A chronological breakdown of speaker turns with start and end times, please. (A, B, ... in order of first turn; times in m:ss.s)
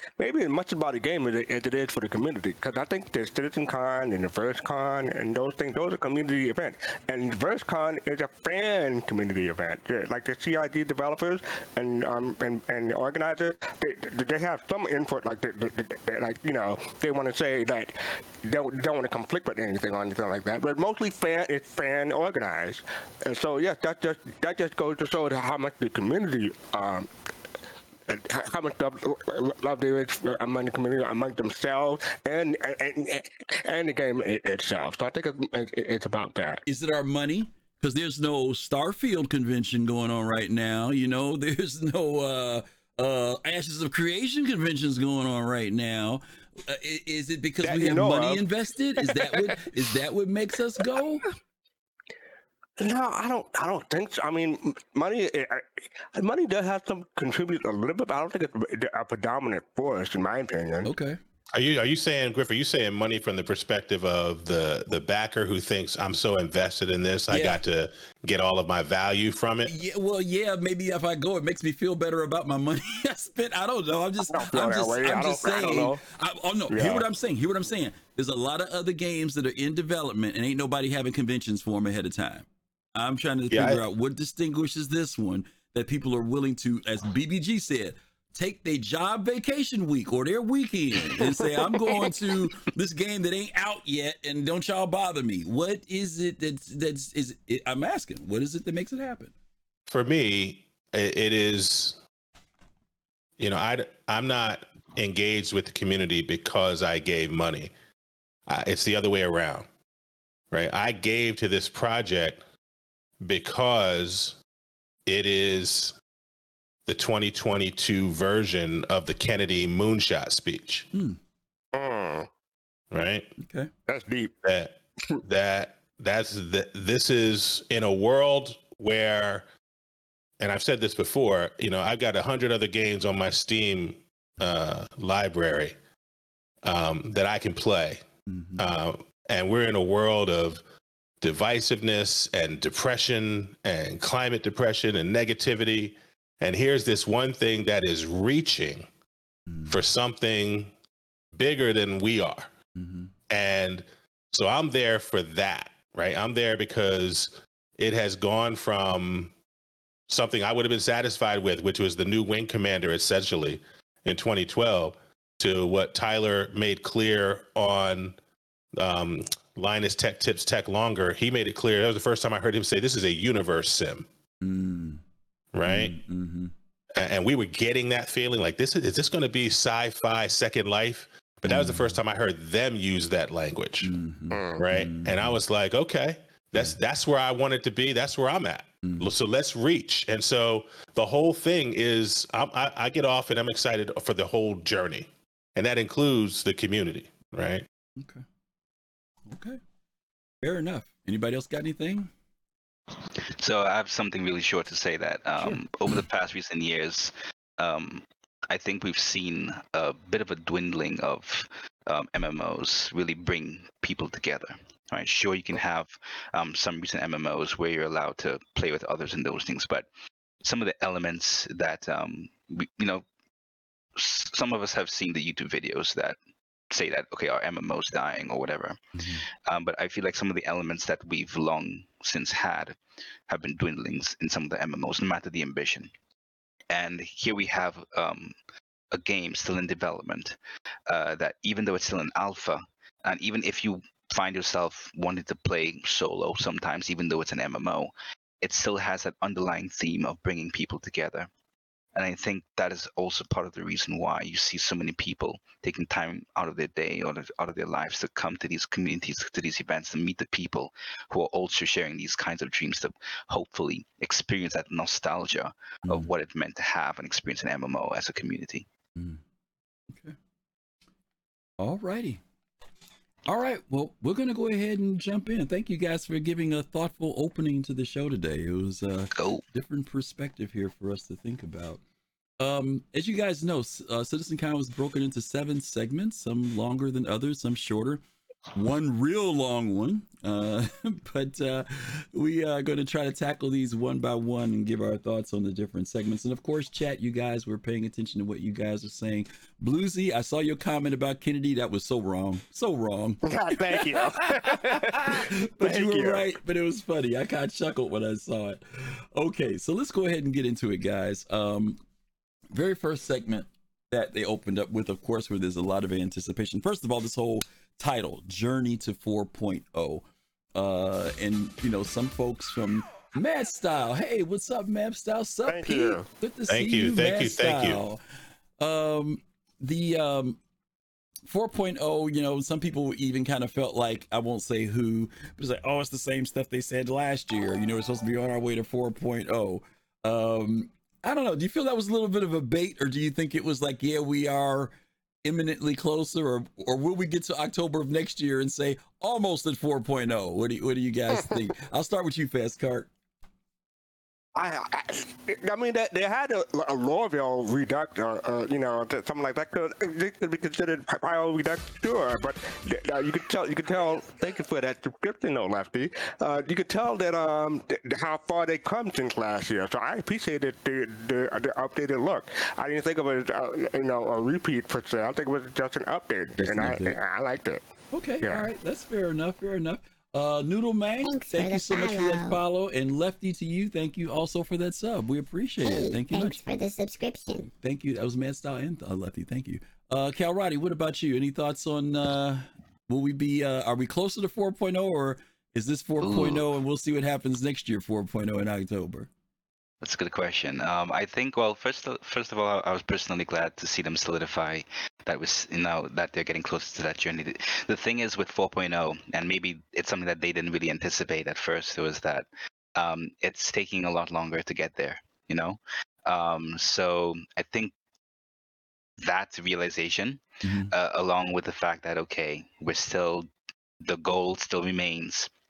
0:00.2-0:27.1 A
0:28.1-0:36.6 A
0:36.6-0:51.2 B
0:47.6-0:48.4 A
0:52.8-1:00.9 A
1:00.8-1:01.2 B
1:01.5-1:09.7 C
1:07.3-1:07.6 B
1:09.6-1:39.3 B
1:14.3-1:16.0 A
1:16.7-1:17.0 A
1:23.5-1:23.8 C
1:39.9-1:42.0 C
1:43.4-1:47.7 C
1:48.5-1:49.7 C
1:50.5-1:52.4 C
1:53.2-1:54.4 C
1:55.0-1:56.0 C
1:56.9-2:00.9 C
2:00.9-2:01.2 B
2:01.7-2:02.3 A
2:02.9-2:03.3 C
2:03.4-2:03.7 B
2:03.9-2:04.3 A
2:04.4-2:09.4 C
2:10.4-2:15.8 C
2:16.6-2:18.0 C
2:18.3-2:18.7 B
2:18.6-2:20.6 C
2:21.2-2:28.9 C
2:29.5-2:29.8 B
2:29.7-2:30.7 C
2:31.3-2:32.5 C
2:32.8-2:33.1 B
2:33.3-2:39.3 C
2:40.1-2:48.2 C
2:48.8-2:54.0 C
2:54.4-2:55.0 B
2:55.5-2:56.0 C
2:55.6-2:56.5 B
2:56.9-3:03.9 C
3:01.4-3:02.0 B
3:03.8-3:05.4 B
3:04.3-3:04.6 A
3:04.6-3:17.6 C
3:08.8-3:09.1 B
3:18.0-3:18.2 B
3:19.2-3:19.6 B
3:20.4-3:22.1 B
3:23.4-3:39.9 D
3:40.4-3:43.0 D
3:44.0-3:46.2 D
3:46.7-3:48.8 D
3:48.9-3:49.2 B
3:49.4-3:52.8 D
3:53.3-3:55.9 D
3:56.7-3:58.4 D
3:58.9-4:00.4 D
4:00.9-4:11.3 D
4:11.9-4:28.7 D
4:28.9-4:29.2 B
4:29.9-4:30.2 B
4:31.6-4:32.2 B
4:33.2-4:41.8 B
4:39.2-4:39.4 D
4:42.4-4:48.0 B
4:48.5-5:11.8 B
5:03.2-5:06.3 A
5:12.5-5:28.0 B
5:25.5-5:26.0 A
5:26.5-5:27.8 C
5:28.6-5:30.4 B
5:31.2-5:44.7 B
5:45.2-5:52.9 B
5:54.3-6:17.6 A
6:16.4-6:17.0 B
6:17.9-6:26.5 B
6:18.2-6:18.5 A
6:21.0-6:22.4 E
6:25.6-6:27.5 E
6:27.5-6:39.1 B
6:36.0-6:36.4 D
6:39.8-6:57.7 D
6:59.0-7:03.3 D
7:00.4-7:00.7 B
7:03.8-7:05.3 D